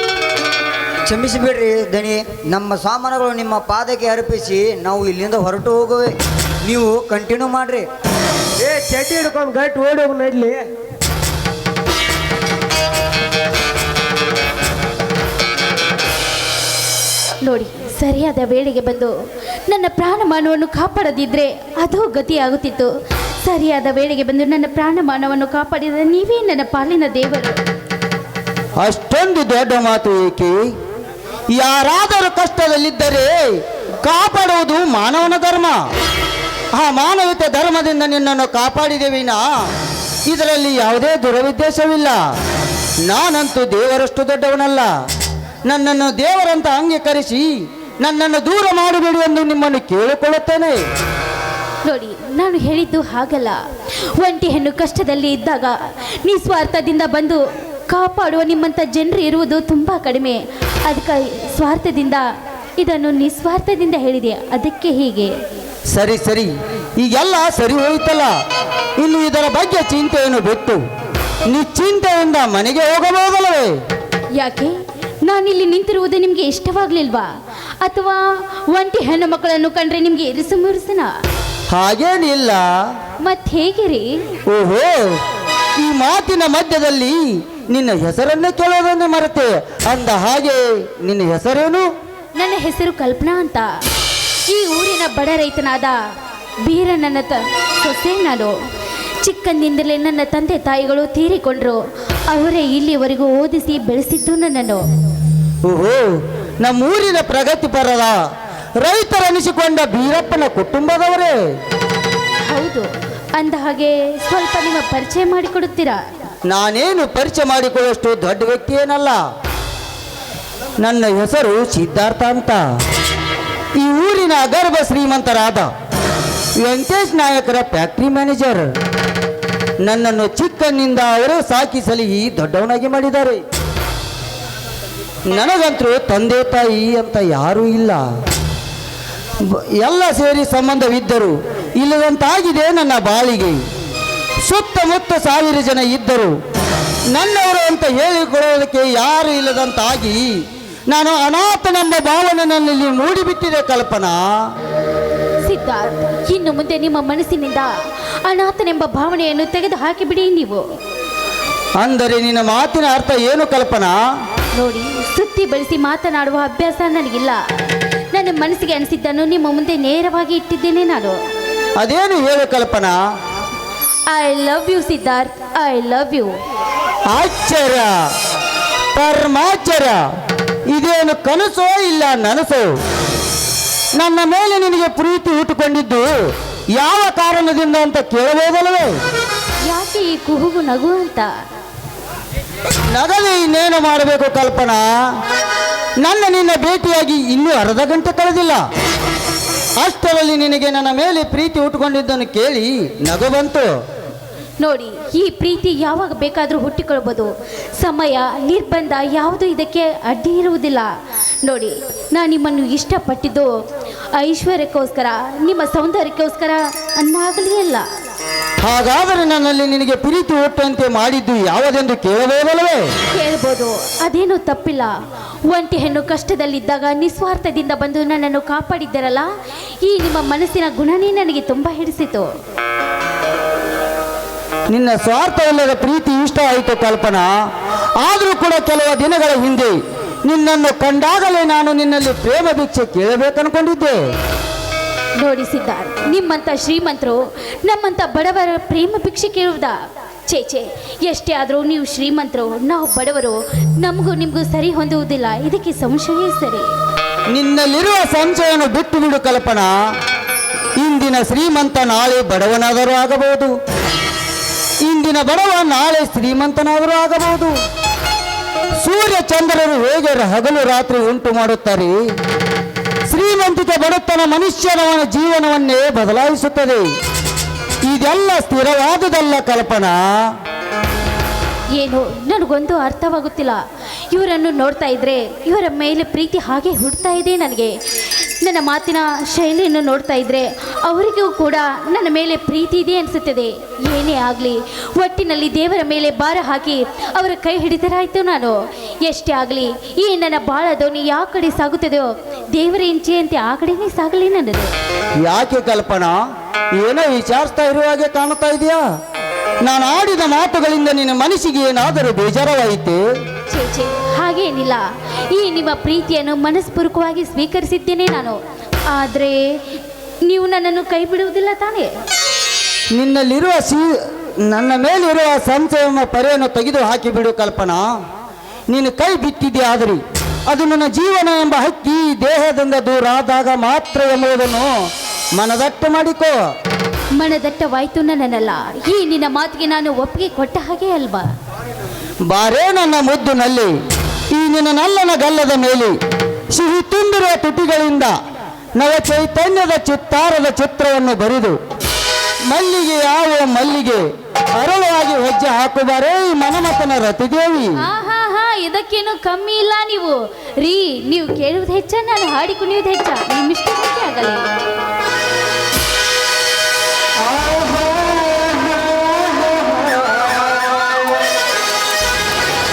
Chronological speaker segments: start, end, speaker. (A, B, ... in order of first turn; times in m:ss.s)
0:01.1-0:07.9 A
0:08.6-0:10.7 B
0:17.4-0:19.1 C
0:19.7-0:22.9 C
0:23.4-0:27.6 C
0:28.8-0:30.6 D
0:31.5-0:33.5 D
0:34.0-0:35.8 D
0:36.8-0:39.5 D
0:40.3-0:42.2 D
0:43.1-0:44.9 D
0:45.7-0:47.5 D
0:48.0-0:50.8 D
0:51.9-0:53.6 C
0:54.2-1:02.2 C
1:02.8-1:05.3 C
1:05.9-1:08.3 D
1:09.0-1:10.8 D
1:11.5-1:13.7 D
1:14.4-1:17.3 C
1:17.8-1:21.1 C
1:21.7-1:22.7 D
1:23.2-1:24.1 C
1:24.5-1:25.2 D
1:25.8-1:31.9 D
1:32.4-1:33.7 C
1:34.5-1:36.0 C
1:36.6-1:38.5 C
1:39.2-1:44.8 C
1:45.7-1:48.2 D
1:48.8-1:51.4 D
1:52.5-1:56.0 C
1:56.5-1:59.2 D
2:00.8-2:02.6 D
2:03.8-2:05.7 D
2:06.6-2:08.7 D
2:09.8-2:13.4 D
2:15.3-2:18.0 D
2:19.4-2:23.6 D
2:24.5-2:26.3 D
2:27.1-2:30.2 D
2:30.9-2:34.2 D
2:35.4-2:37.7 C
2:38.3-2:40.6 C
2:41.8-2:44.0 D
2:44.6-2:47.4 C
2:48.1-2:51.2 C
2:51.8-2:53.0 D
2:54.1-2:56.3 C
2:57.1-2:57.9 D
2:59.0-3:00.0 D
3:00.7-3:02.7 D
3:04.0-3:06.1 D
3:06.8-3:09.0 D
3:09.7-3:11.3 C
3:12.9-3:14.9 D
3:16.0-3:18.6 D
3:19.8-3:23.7 D
3:24.6-3:30.9 C
3:31.4-3:33.5 C
3:34.2-3:37.9 C
3:38.6-3:42.8 D
3:43.1-3:44.9 C
3:45.5-3:49.3 C
3:49.8-3:52.3 C
3:54.7-3:57.3 D
3:58.0-4:04.0 D
4:05.2-4:09.8 C
4:10.3-4:16.7 C
4:17.3-4:19.8 D
4:20.8-4:23.5 D
4:24.8-4:27.6 D
4:28.8-4:32.0 D
4:33.1-4:36.8 D
4:37.9-4:40.0 D
4:41.8-4:43.6 C
4:44.1-4:47.8 C
4:48.4-5:04.7 C
5:05.3-5:06.2 D
5:06.8-5:08.8 D
5:09.6-5:13.0 D
5:13.5-5:18.4 C
5:18.9-5:19.4 C
5:20.3-5:21.9 C
5:23.0-5:23.8 D
5:24.5-5:27.9 D
5:28.7-5:34.7 D
5:35.4-5:36.4 D
5:37.2-5:41.3 C
5:42.3-5:43.7 D
5:44.3-5:46.0 D
5:46.5-5:48.1 D
5:48.8-5:51.6 D
5:52.5-5:54.0 D
5:54.6-5:57.7 D
5:57.8-6:04.5 C
6:07.2-6:11.1 D